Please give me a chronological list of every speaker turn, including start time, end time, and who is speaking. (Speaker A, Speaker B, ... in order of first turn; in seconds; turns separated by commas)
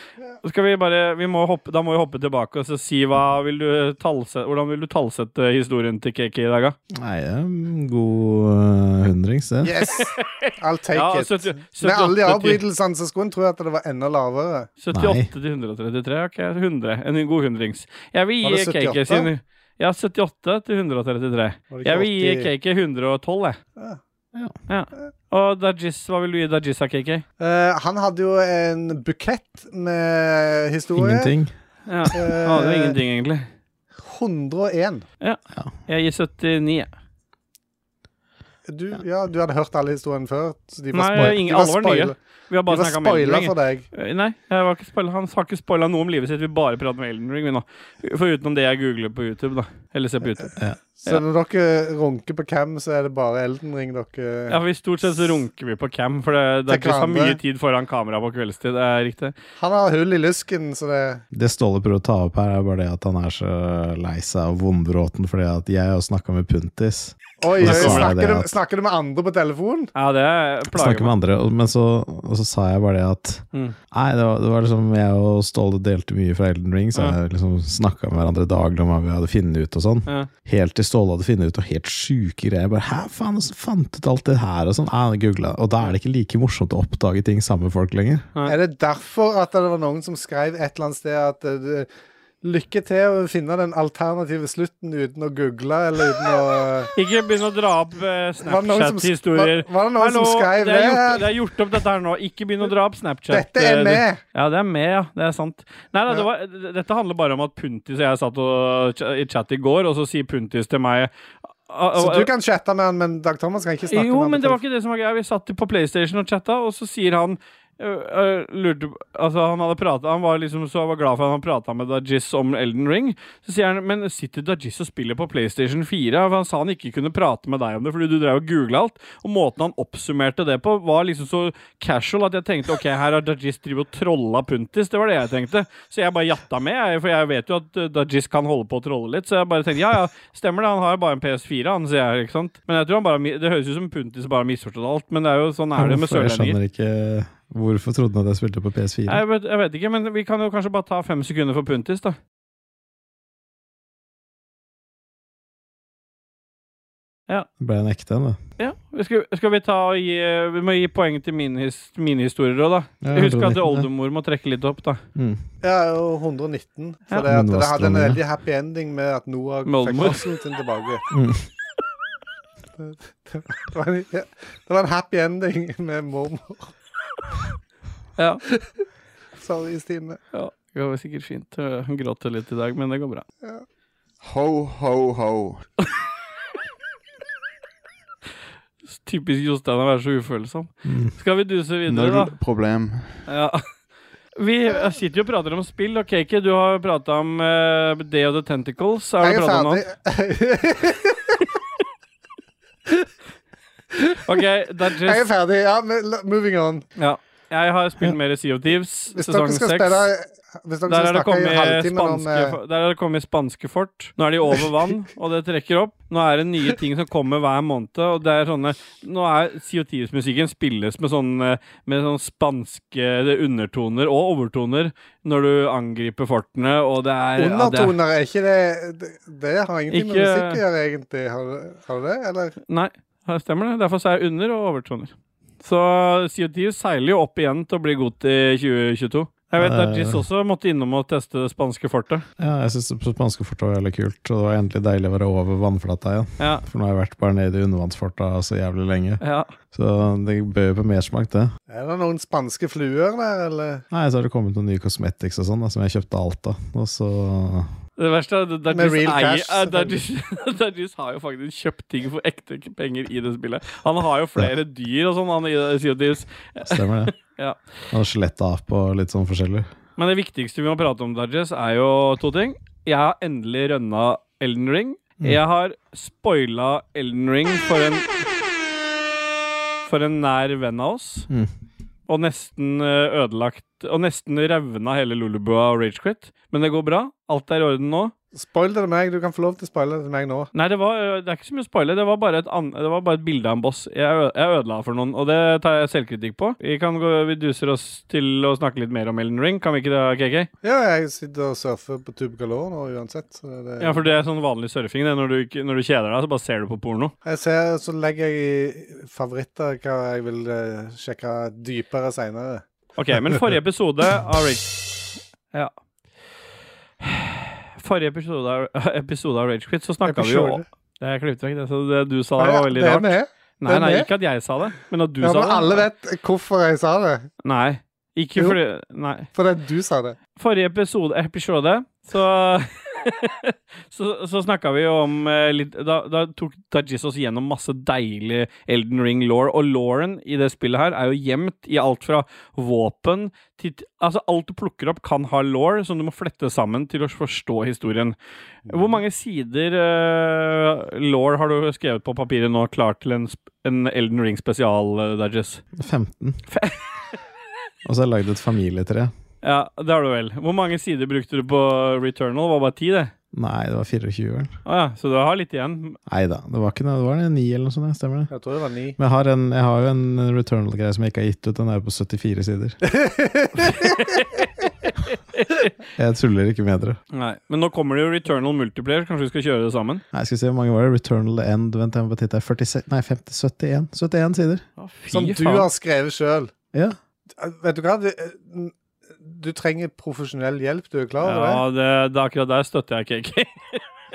Speaker A: 0.4-6.8, Speaker B: 6.9-9.8, Speaker C: 9.6-14.7, Speaker A: 10.2-12.6, Speaker A: 14.8-23.6, Speaker B: 14.9-15.3, Speaker C: 18.4-19.3, Speaker C: 21.7-22.5, Speaker A: 24.7-27.2, Speaker C: 27.4-31.3, Speaker B: 30.9-32.1, Speaker A: 31.9-33.5, Speaker C: 32.1-33.0, Speaker C: 34.0-35.0, Speaker A: 35.2-36.9, Speaker C: 38.7-42.1, Speaker A: 40.9-50.5, Speaker C: 42.7-43.9, Speaker C: 51.0-54.6, Speaker A: 54.5-59.3, Speaker C: 56.7-57.4, Speaker C: 59.6-61.2, Speaker B: 61.3-68.5, Speaker C: 67.4-69.9, Speaker A: 67.6-68.1, Speaker A: 69.9-71.1, Speaker B: 70.7-88.3, Speaker C: 88.5-91.9, Speaker C: 92.4-96.9, Speaker A: 96.9-111.1, Speaker C: 98.4-101.2, Speaker C: 103.3-104.2, Speaker A: 111.7-112.3, Speaker C: 111.9-114.6, Speaker A: 113.9-146.6, Speaker B: 145.8-149.2, Speaker A: 149.1-152.2, Speaker B: 157.6-158.4, Speaker A: 158.6-165.0, Speaker B: 163.0-163.9, Speaker B: 165.1-165.4, Speaker C: 165.6-171.0, Speaker B: 167.1-168.2, Speaker A: 169.7-170.2, Speaker B: 171.1-171.5, Speaker C: 172.8-176.7, Speaker A: 178.2-178.4, Speaker C: 179.4-180.2, Speaker A: 180.3-183.2, Speaker D: 184.2-185.6, Speaker A: 188.9-192.3, Speaker B: 190.8-191.1, Speaker D: 191.9-193.2, Speaker A: 193.3-193.6, Speaker A: 194.3-199.8, Speaker C: 199.2-201.4, Speaker C: 203.9-204.2, Speaker A: 204.2-205.2, Speaker C: 204.9-206.8, Speaker A: 207.0-210.1, Speaker C: 209.1-212.6, Speaker A: 210.9-227.9, Speaker C: 227.4-232.6, Speaker A: 229.9-230.6, Speaker A: 232.7-242.2, Speaker B: 239.6-240.2, Speaker B: 242.4-251.5, Speaker A: 246.4-246.6, Speaker A: 249.2-249.5, Speaker C: 251.7-253.8, Speaker B: 253.9-257.7, Speaker A: 258.0-267.6, Speaker C: 258.7-259.9, Speaker B: 266.6-267.1, Speaker B: 267.9-269.7, Speaker A: 270.0-278.1, Speaker A: 279.9-281.3, Speaker A: 282.1-288.1, Speaker C: 288.4-290.5, Speaker A: 290.5-300.5, Speaker C: 300.6-304.0, Speaker A: 303.8-307.1, Speaker C: 307.2-312.6, Speaker A: 312.9-314.8, Speaker A: 317.0-325.8, Speaker C: 320.0-320.6, Speaker C: 322.4-324.1, Speaker C: 325.2-327.3, Speaker A: 327.4-329.3, Speaker C: 329.3-330.2, Speaker A: 330.4-348.1, Speaker A: 348.7-355.6, Speaker B: 355.7-356.4, Speaker A: 356.5-356.9, Speaker B: 357.8-359.1, Speaker A: 359.4-363.1, Speaker B: 363.3-364.5, Speaker A: 364.6-366.0, Speaker B: 366.1-368.3, Speaker C: 368.3-368.9, Speaker B: 369.0-372.8, Speaker C: 372.9-373.9, Speaker A: 373.8-374.5, Speaker A: 375.1-375.7, Speaker B: 375.9-377.0, Speaker A: 377.1-380.0, Speaker B: 380.1-384.6, Speaker A: 384.8-385.7, Speaker C: 385.1-386.5, Speaker B: 386.7-387.0, Speaker C: 387.4-391.6, Speaker A: 391.2-393.8